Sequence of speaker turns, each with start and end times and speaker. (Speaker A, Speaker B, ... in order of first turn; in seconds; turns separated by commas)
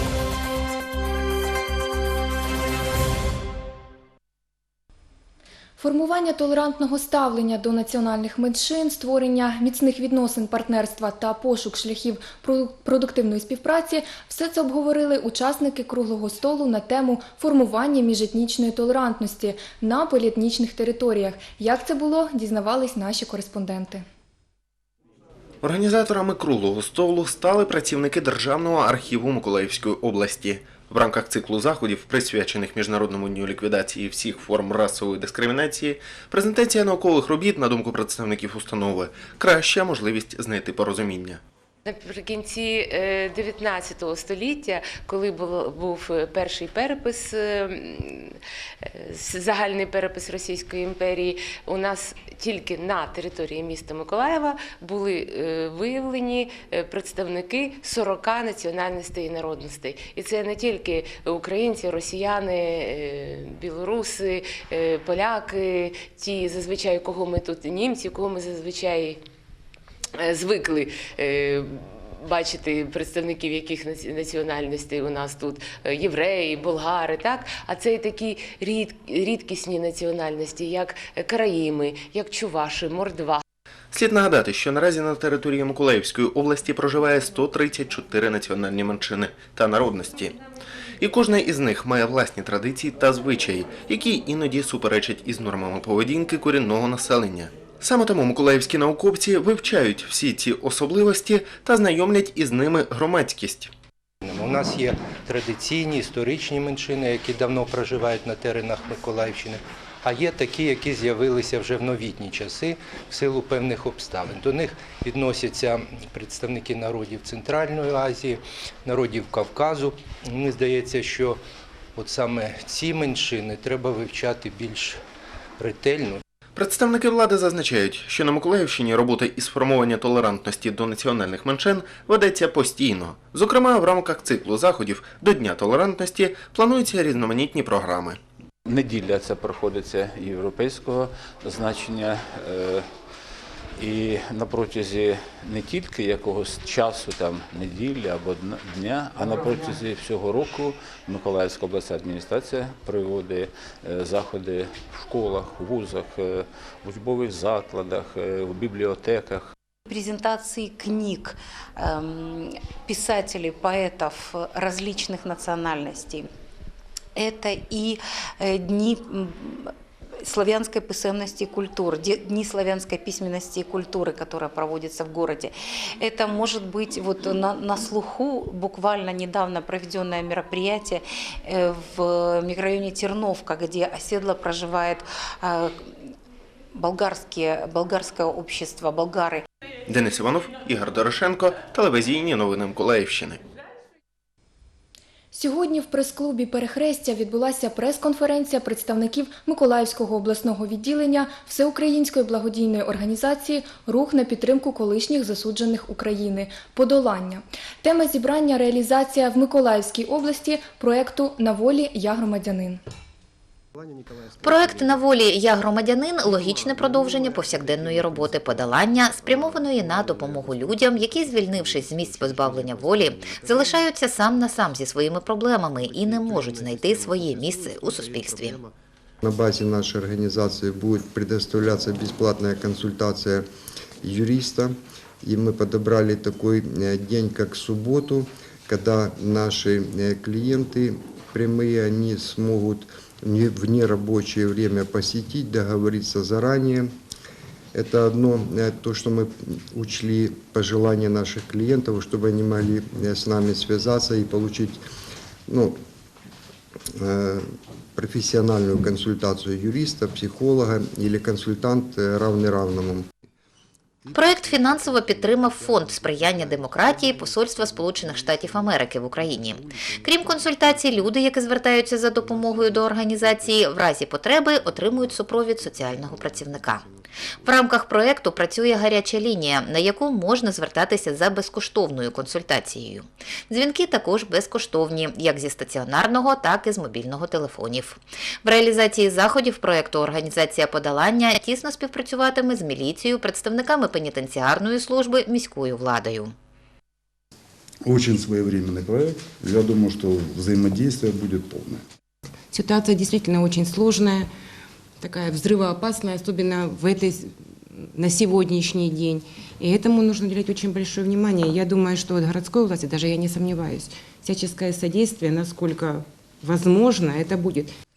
Speaker A: 5.8-24.1, Speaker B: 25.6-41.4, Speaker C: 41.9-48.4, Speaker C: 49.0-69.2, Speaker C: 70.2-83.4, Speaker B: 83.9-90.4, Speaker B: 91.0-103.7, Speaker D: 104.2-121.4, Speaker D: 122.0-125.0, Speaker D: 125.6-126.2, Speaker B: 126.6-138.2, Speaker E: 138.7-142.8, Speaker E: 143.8-159.5, Speaker F: 159.9-166.3, Speaker F: 167.2-169.7, Speaker F: 170.2-185.8, Speaker F: 186.7-189.4, Speaker B: 189.9-193.4, Speaker A: 195.3-212.8, Speaker G: 214.4-228.6, Speaker H: 229.2-233.5, Speaker H: 234.0-246.9, Speaker H: 247.7-254.8, Speaker H: 255.5-255.8, Speaker H: 256.9-263.1, Speaker G: 264.1-276.9, Speaker G: 277.4-296.3, Speaker I: 297.9-301.8, Speaker J: 302.5-304.3, Speaker J: 305.0-307.3, Speaker J: 307.8-317.7